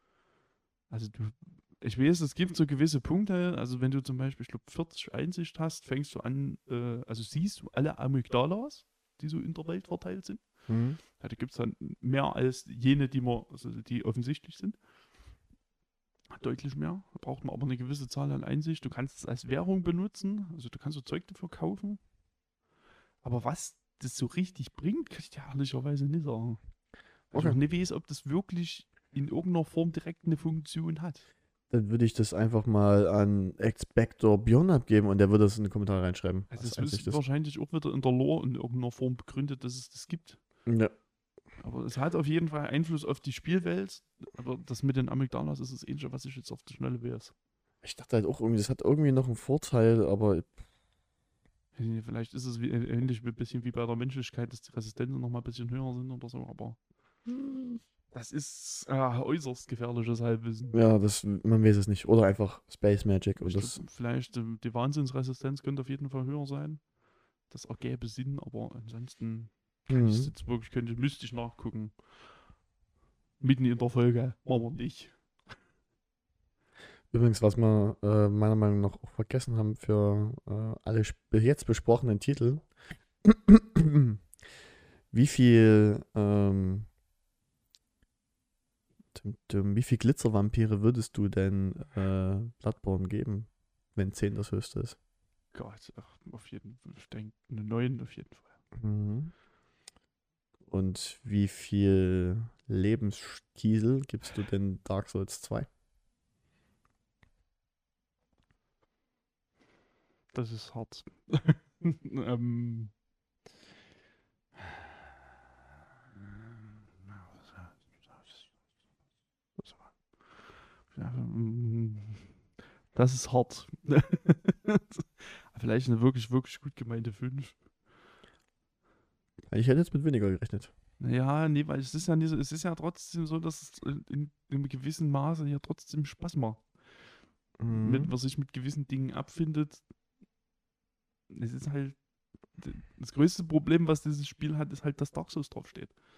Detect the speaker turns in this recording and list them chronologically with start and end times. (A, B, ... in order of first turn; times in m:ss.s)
0:00.9-0:10.4 A
0:10.7-0:11.0 B
0:11.1-0:14.8 A
0:16.3-0:22.0 A
0:23.2-0:26.6 A
0:27.3-0:31.3 A
0:27.3-0:27.6 B
0:31.7-0:37.2 B
0:36.5-0:40.4 A
0:40.7-0:40.9 B
0:41.6-0:47.3 A
0:47.8-0:50.6 B
0:51.8-0:56.8 A
0:57.3-0:57.8 B
0:58.1-1:00.8 A
1:00.7-1:03.8 B
1:03.4-1:06.8 A
1:07.5-1:11.9 A
1:09.9-1:10.3 B
1:13.4-1:15.1 A
1:17.1-1:22.6 B
1:23.2-1:24.2 B
1:25.1-1:26.9 B
1:29.2-1:35.0 B
1:35.5-1:38.6 A
1:38.8-1:39.3 B
1:40.7-1:45.7 B
1:50.3-1:52.9 A
1:56.3-1:57.8 A
1:59.7-2:02.3 A
2:02.9-2:07.6 A
2:09.5-2:10.7 B
2:11.0-2:16.6 A
2:17.6-2:18.1 B
2:17.7-2:19.8 A
2:21.3-2:22.0 A
2:22.6-2:25.9 A